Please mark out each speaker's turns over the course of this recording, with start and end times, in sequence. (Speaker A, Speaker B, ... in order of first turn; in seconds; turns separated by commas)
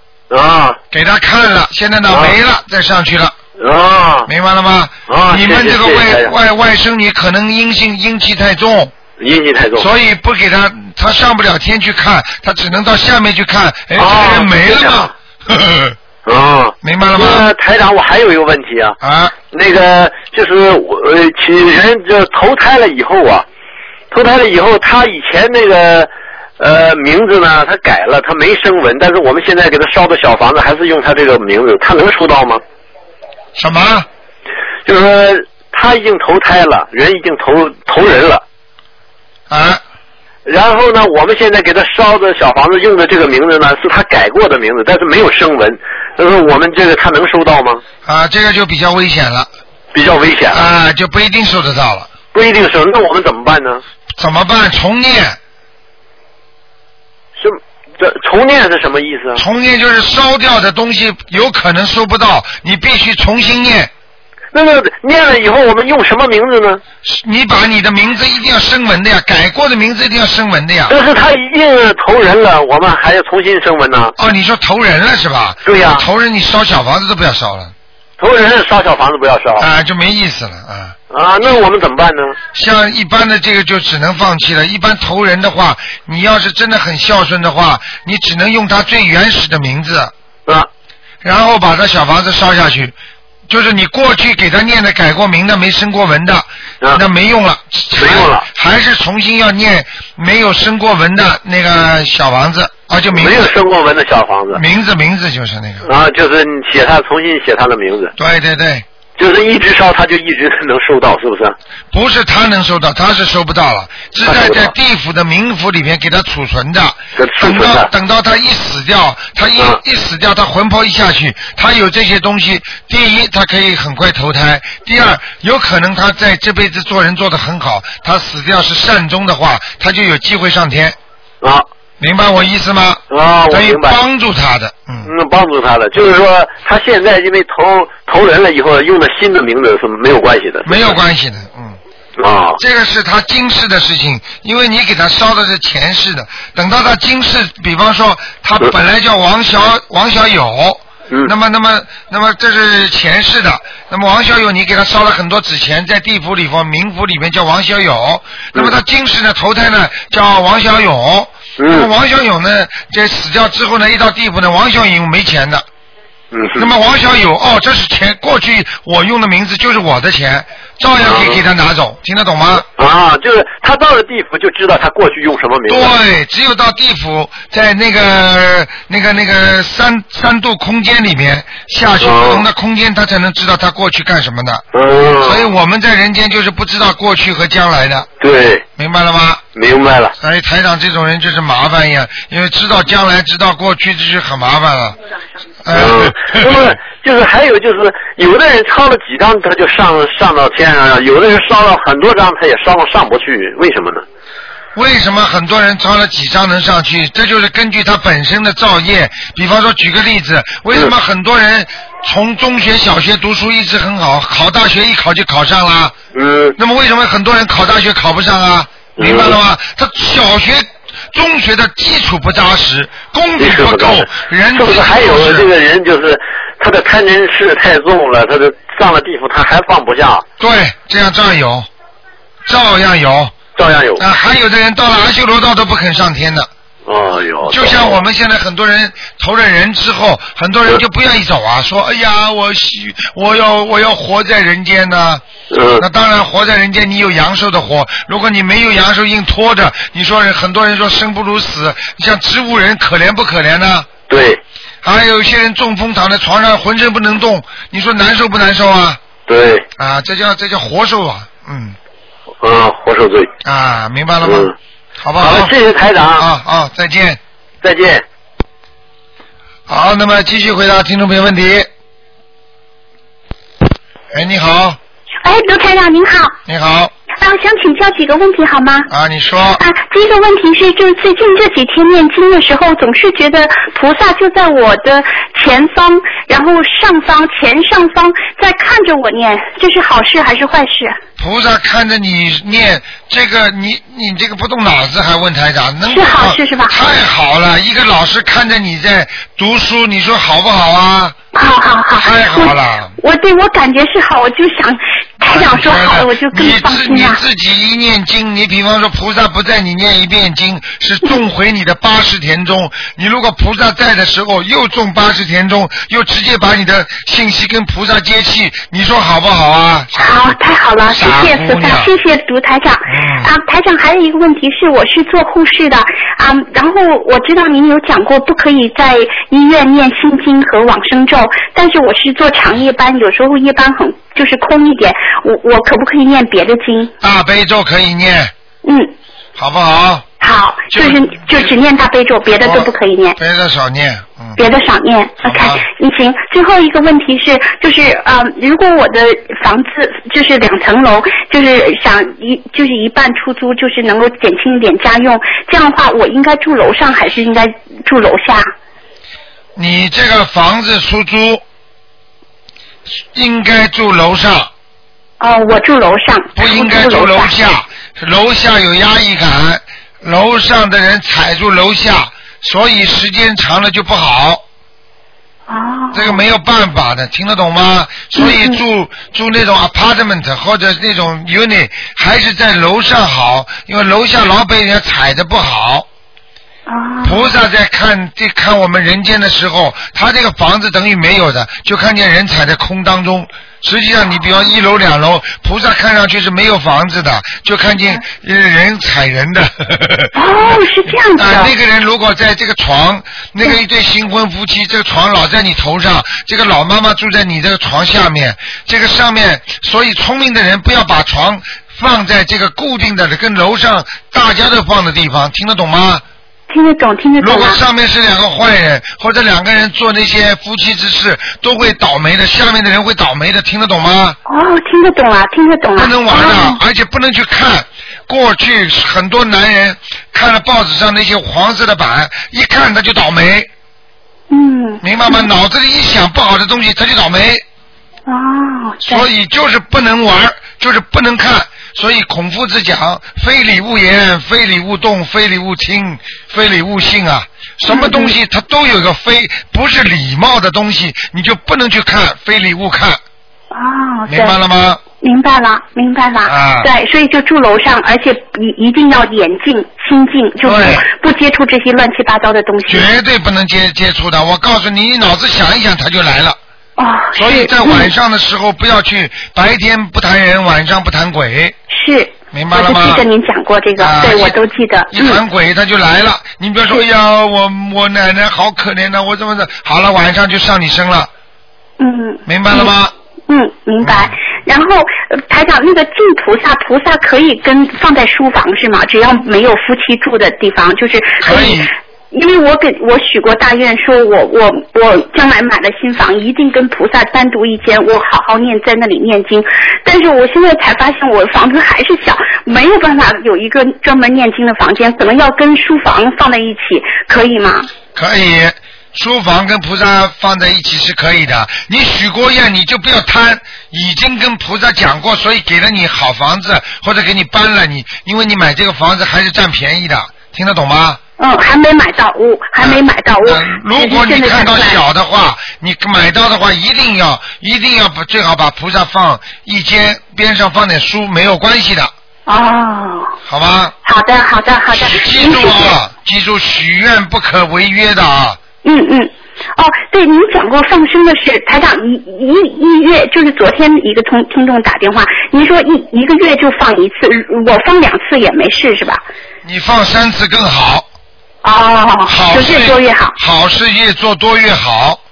Speaker A: 0.3-0.8, Speaker B: 0.9-3.3, Speaker A: 2.1-2.4, Speaker A: 3.6-4.3, Speaker B: 4.2-8.9, Speaker A: 5.1-6.3, Speaker A: 9.2-9.9, Speaker B: 9.8-15.9, Speaker A: 13.9-15.1, Speaker A: 16.2-19.0, Speaker B: 16.8-17.5, Speaker B: 19.0-19.3, Speaker A: 19.5-23.4, Speaker A: 24.1-32.6, Speaker B: 33.5-34.1, Speaker A: 34.9-38.4, Speaker B: 39.5-39.8, Speaker A: 40.5-47.8, Speaker B: 48.0-49.5, Speaker A: 49.9-50.6, Speaker B: 50.5-52.1, Speaker A: 52.3-53.8, Speaker B: 54.2-55.4, Speaker A: 57.4-59.4, Speaker B: 59.4-63.9, Speaker A: 64.5-66.8, Speaker B: 67.0-71.0, Speaker A: 70.9-74.1, Speaker B: 74.2-77.7, Speaker A: 75.6-76.0, Speaker A: 78.2-79.7, Speaker B: 79.6-81.0, Speaker A: 81.1-82.4, Speaker B: 82.5-90.1, Speaker B: 91.2-92.9, Speaker B: 93.5-103.5, Speaker A: 98.0-98.4, Speaker A: 103.1-104.6, Speaker B: 104.5-105.9, Speaker A: 105.8-108.1, Speaker B: 108.2-108.8, Speaker A: 109.2-111.5, Speaker B: 111.9-130.9, Speaker A: 114.2-114.7, Speaker A: 117.2-117.9, Speaker B: 132.0-135.1, Speaker A: 133.1-134.0, Speaker A: 135.0-141.0, Speaker B: 140.7-141.8, Speaker A: 142.2-142.6, Speaker B: 142.6-165.7, Speaker A: 161.6-161.9, Speaker A: 166.3-166.7, Speaker B: 166.6-172.7, Speaker A: 171.0-171.4, Speaker A: 172.8-175.9, Speaker B: 175.7-184.6, Speaker A: 182.0-182.4, Speaker A: 184.7-185.4, Speaker B: 185.2-188.1, Speaker A: 188.2-188.6, Speaker B: 188.8-189.4, Speaker A: 189.5-190.1, Speaker B: 190.2-195.0, Speaker B: 195.6-196.7, Speaker A: 195.7-204.0, Speaker B: 204.7-215.9, Speaker A: 216.1-216.6, Speaker B: 216.6-225.5, Speaker A: 219.0-219.3, Speaker A: 223.4-230.2, Speaker B: 230.4-231.7, Speaker B: 232.4-233.3, Speaker A: 233.6-234.0, Speaker B: 234.0-236.5, Speaker A: 236.8-238.0, Speaker B: 237.4-245.2, Speaker A: 245.5-245.8, Speaker B: 245.8-253.9, Speaker A: 254.1-254.4, Speaker B: 254.8-259.0, Speaker A: 259.3-259.6, Speaker B: 259.8-261.8, Speaker A: 262.4-263.3, Speaker B: 263.4-265.5, Speaker A: 264.2-264.5, Speaker A: 265.2-266.2, Speaker B: 266.1-267.2, Speaker A: 267.6-268.0, Speaker B: 269.7-271.7, Speaker B: 274.1-274.8, Speaker C: 275.2-276.4, Speaker B: 276.4-276.9, Speaker C: 277.2-278.9, Speaker B: 278.9-279.6, Speaker C: 279.6-291.0, Speaker B: 291.2-301.1, Speaker C: 295.9-296.8, Speaker C: 301.3-307.2, Speaker B: 301.9-302.9, Speaker B: 305.3-320.4, Speaker C: 319.9-336.9, Speaker B: 320.9-321.9, Speaker B: 322.9-323.3, Speaker B: 337.0-338.3, Speaker C: 338.6-338.9, Speaker B: 339.4-340.1, Speaker C: 340.2-343.2, Speaker B: 340.7-341.5, Speaker B: 342.4-344.4, Speaker C: 344.4-358.5, Speaker B: 345.2-345.6, Speaker B: 359.6-361.4, Speaker B: 363.1-364.5, Speaker C: 365.2-367.3, Speaker B: 366.4-374.4, Speaker C: 375.5-376.2, Speaker B: 375.9-385.9, Speaker C: 378.1-378.6, Speaker C: 386.7-387.3, Speaker B: 387.0-416.0, Speaker C: 400.1-401.5, Speaker C: 416.5-417.6, Speaker B: 417.2-424.2, Speaker C: 424.3-426.6, Speaker B: 425.8-433.5, Speaker C: 434.3-435.3, Speaker B: 434.8-437.4, Speaker C: 438.1-439.1, Speaker B: 438.8-453.0, Speaker C: 447.7-448.1, Speaker C: 453.5-454.4, Speaker B: 454.1-454.8, Speaker C: 455.0-462.9, Speaker B: 456.2-456.7, Speaker B: 460.4-460.9, Speaker B: 462.7-466.4, Speaker C: 466.8-467.9, Speaker B: 467.1-471.6, Speaker C: 471.7-475.2, Speaker B: 472.3-473.0, Speaker B: 473.8-474.4, Speaker B: 474.9-481.1, Speaker C: 481.8-482.7, Speaker B: 482.3-482.9, Speaker C: 483.3-507.7, Speaker B: 483.8-484.2, Speaker B: 491.2-491.7, Speaker B: 507.9-521.0, Speaker C: 521.2-524.8, Speaker B: 522.6-531.9, Speaker C: 532.3-533.1, Speaker B: 533.3-533.7, Speaker C: 533.8-535.7, Speaker B: 534.7-538.4, Speaker C: 538.6-549.0, Speaker B: 549.4-550.9, Speaker C: 551.4-553.1, Speaker B: 552.1-555.0